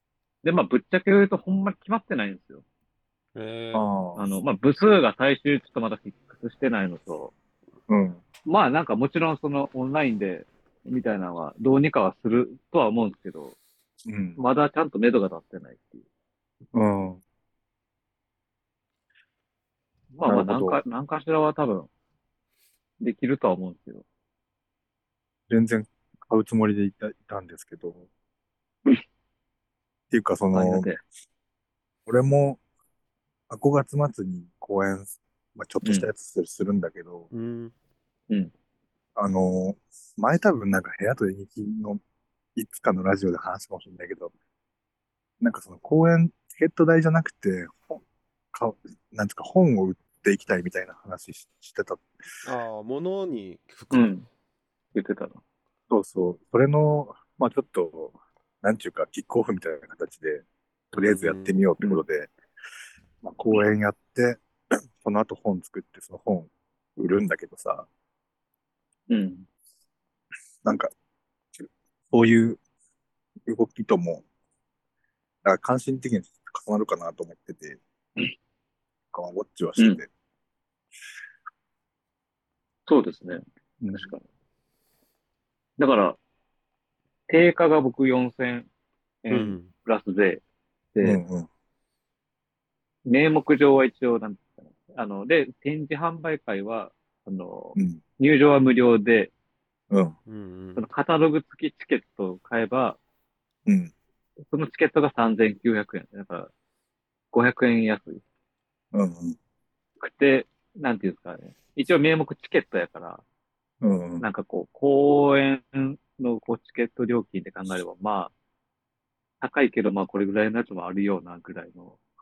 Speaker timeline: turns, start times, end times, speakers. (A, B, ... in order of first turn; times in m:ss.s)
0:00.4-0:02.6 A
0:03.4-0:03.9 B
0:03.7-0:04.3 C
0:04.2-0:07.3 A
0:07.9-0:08.2 C
0:08.4-0:13.6 A
0:14.0-0:14.4 C
0:14.4-0:16.0 A
0:16.7-0:17.2 C
0:20.1-0:21.9 A
0:20.2-0:20.8 C
0:23.0-0:24.0 A
0:25.5-0:28.1 C
0:30.1-0:30.9 C
0:30.5-0:31.0 A
0:32.1-0:32.6 C
0:33.5-0:37.3 C
0:37.3-0:37.7 B
0:39.2-0:42.0 C
0:42.6-0:44.3 C
0:45.4-0:48.0 C
0:48.5-0:52.1 C
0:52.4-0:54.1 B
0:53.9-0:54.3 A
0:55.0-0:55.4 A
0:55.9-1:02.3 C
1:00.9-1:01.6 B
1:03.2-1:04.4 C
1:05.0-1:07.9 C
1:09.1-1:09.5 A
1:10.6-1:10.9 C
1:11.6-1:12.6 C
1:13.5-1:14.2 C
1:15.4-1:17.8 C
1:19.1-1:20.1 C
1:22.9-1:24.2 A
1:23.8-1:24.1 C
1:25.8-1:26.2 A
1:27.3-1:28.7 A
1:29.2-1:30.4 A
1:29.3-1:29.7 B
1:30.9-1:31.2 A
1:31.0-1:31.5 C
1:33.1-1:39.3 A
1:37.8-1:38.0 C
1:39.9-1:40.2 C
1:40.3-1:40.9 B
1:40.8-1:43.0 A
1:43.7-1:43.9 C
1:44.4-1:46.5 A
1:47.3-1:48.2 A
1:48.9-1:49.4 C
1:50.0-1:53.2 A
1:53.8-1:54.3 C
1:54.2-1:58.3 A
1:59.4-2:02.0 A